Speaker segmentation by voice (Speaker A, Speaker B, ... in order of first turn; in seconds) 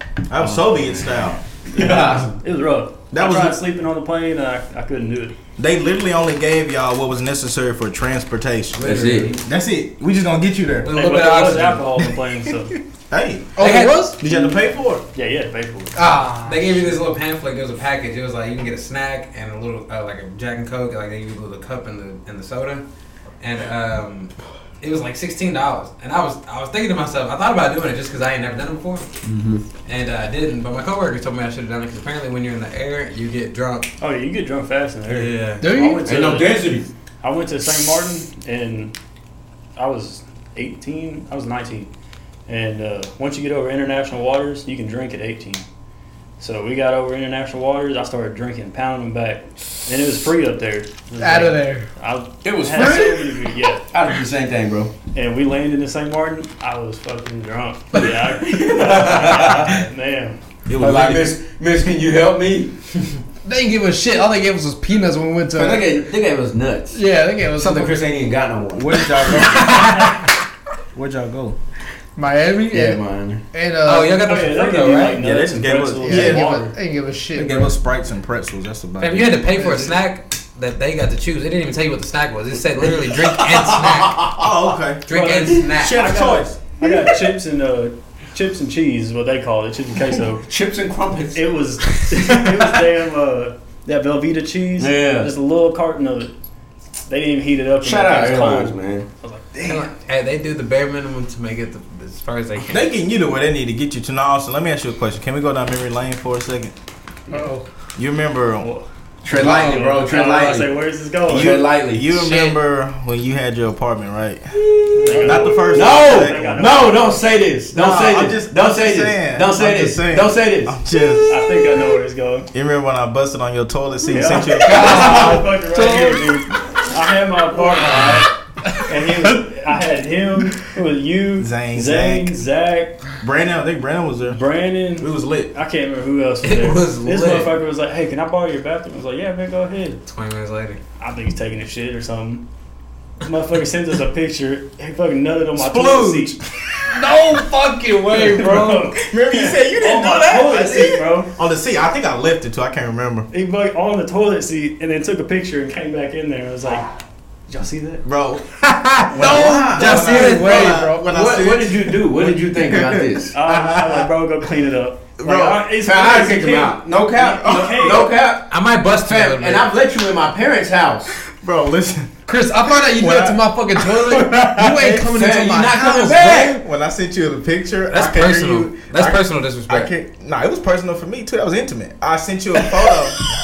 Speaker A: 0.3-1.4, 3.1-3.6, 5.6-10.9, 13.1-15.0, 60.6-61.3, 68.7-70.1, 70.9-71.5, 75.0-76.5, 77.3-79.4, 84.3-85.0, 85.7-86.6, 102.7-106.7, 108.0-108.7, 111.3-114.5, 115.1-116.7, 117.7-121.4, 122.5-125.4, 131.4-132.4, 133.2-134.4, 135.0-135.5, 145.6-147.0, 148.9-153.3, 158.0-158.4, 159.1-164.1, 165.2-165.6, 167.2-167.9, 171.3-172.1, 172.8-175.0, 176.1-183.2
Speaker B: 0.4-0.8, 1.7-2.3, 8.8-9.3, 29.2-29.6, 36.0-36.9, 52.4-54.9, 58.0-59.8, 60.8-62.7, 65.5-69.6, 72.7-73.4, 83.5-84.3, 90.4-91.4, 94.8-95.3, 97.8-99.1, 109.2-112.2, 114.5-121.7, 124.7-125.3, 159.1-163.3, 165.8-168.5, 169.0-171.2, 174.9-176.6
Speaker C: 1.7-5.3, 10.9-12.8, 15.1-16.1, 34.0-36.7, 37.2-38.9, 39.8-41.9, 42.5-45.6, 46.4-53.9, 55.1-60.4, 74.2-76.7, 85.1-90.4, 91.3-96.3, 97.1-99.8, 108.6-111.6, 115.0-117.2, 121.3-122.5, 124.1-133.0, 134.3-140.0, 141.0-142.4, 143.2-146.4, 148.1-151.3, 153.3-156.9, 157.5-158.0, 163.3-168.1
Speaker D: 8.7-9.4, 10.8-11.9, 13.6-14.1, 16.4-22.8, 23.4-29.1, 29.8-33.9, 35.1-35.7, 69.3-70.3, 73.8-75.2, 79.0-84.4, 85.0-86.1, 99.6-102.8, 136.4-137.5, 140.1-140.8, 158.6-160.7, 168.5-169.7, 177.9-179.9
Speaker E: 13.6-14.4, 15.9-16.9, 35.6-36.1, 51.2-51.9, 63.4-65.9, 66.9-68.0, 72.2-74.2, 76.0-77.7, 107.3-107.6, 112.2-112.5, 124.6-126.3, 146.9-148.9, 159.2-161.1, 172.3-176.5